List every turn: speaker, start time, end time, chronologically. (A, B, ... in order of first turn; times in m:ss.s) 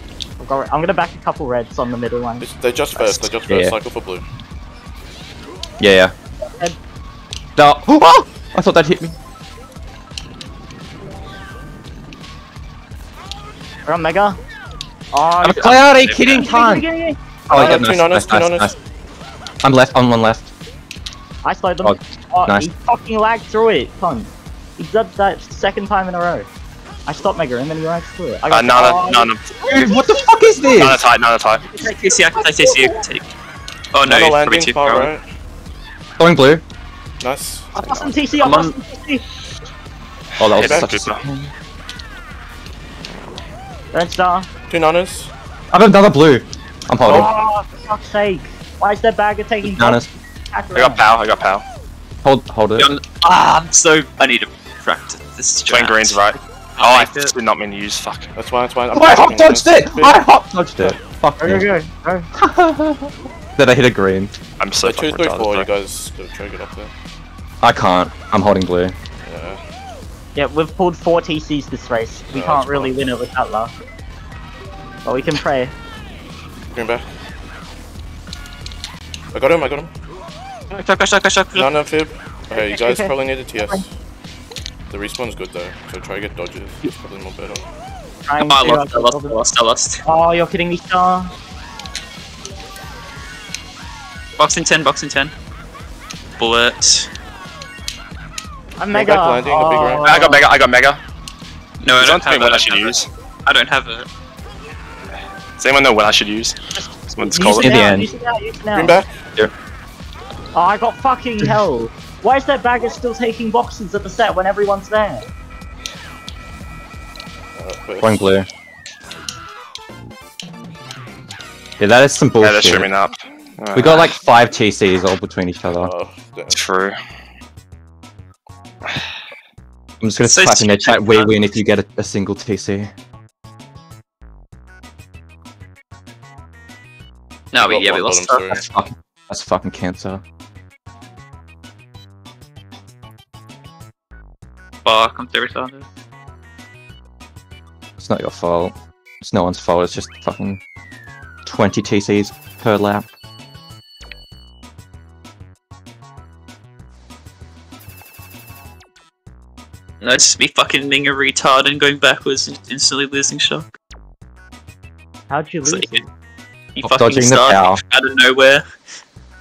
0:00.4-0:02.5 A
0:02.4-0:04.2 B
0:03.0-0:03.4 C
0:03.5-0:03.7 D
0:05.8-0:06.1 D
0:06.4-0:06.8 A
0:07.6-0:09.2 D
0:13.9-0:14.4 A
0:15.1-0:17.2 A
0:15.4-0:16.9 D
0:17.5-0:18.8 D
0:17.5-0:18.8 B
0:19.6-0:20.5 D
0:21.4-0:26.5 A
0:21.8-0:22.7 D
0:27.1-0:29.3 A
0:28.5-0:29.5 C
0:29.6-0:31.0 D
0:30.7-0:31.6 C
0:31.7-0:33.0 A
0:31.8-0:33.3 E
0:33.9-0:35.1 E
0:34.0-0:35.2 B
0:36.2-0:36.6 D
0:37.2-0:37.8 B
0:37.8-0:39.2 A
0:37.8-0:38.0 C
0:38.4-0:38.7 E
0:40.4-0:41.5 D
0:40.4-0:41.2 C
0:43.9-0:44.5 A
0:44.7-0:45.3 B
0:45.7-0:47.3 D
0:47.0-0:51.1 A
0:49.6-0:50.1 D
0:50.7-0:51.6 C
0:52.2-0:53.0 D
0:52.8-0:57.3 E
0:55.7-0:58.3 C
0:58.4-1:00.2 B
0:58.9-1:01.7 D
1:01.4-1:02.3 A
1:02.4-1:04.4 D
1:04.6-1:05.7 C
1:04.8-1:06.9 B
1:07.6-1:09.0 D
1:09.2-1:09.6 B
1:10.4-1:13.7 A
1:12.3-1:13.1 B
1:15.0-1:15.7 A
1:16.7-1:17.1 B
1:19.3-1:19.9 B
1:20.7-1:21.7 E
1:21.6-1:23.9 B
1:22.5-1:23.1 A
1:24.9-1:27.6 B
1:28.2-1:29.4 A
1:28.4-1:30.0 E
1:30.0-1:31.3 A
1:34.4-1:35.3 E
1:36.4-1:37.1 E
1:38.8-1:40.5 A
1:38.9-1:40.1 B
1:40.0-1:41.0 C
1:41.8-1:44.1 E
1:41.9-1:43.1 C
1:45.6-1:46.6 C
1:46.8-1:49.0 A
1:47.1-1:47.8 C
1:47.6-1:48.1 D
1:48.7-1:49.2 B
1:50.5-1:55.2 A
1:57.6-1:58.4 B
1:58.0-1:58.5 D
2:01.8-2:02.9 D
2:02.4-2:04.1 C
2:03.8-2:05.9 D
2:05.7-2:06.7 B
2:06.5-2:07.0 C
2:10.0-2:12.9 D
2:10.2-2:11.4 E
2:17.5-2:18.5 E
2:17.6-2:18.6 B
2:18.5-2:20.2 D
2:24.8-2:25.9 E
2:28.0-2:30.6 D
2:31.4-2:33.1 D
2:40.0-2:43.8 E
2:45.3-2:46.0 A
2:45.6-2:46.0 E
2:46.8-2:48.6 E
2:46.8-2:47.8 D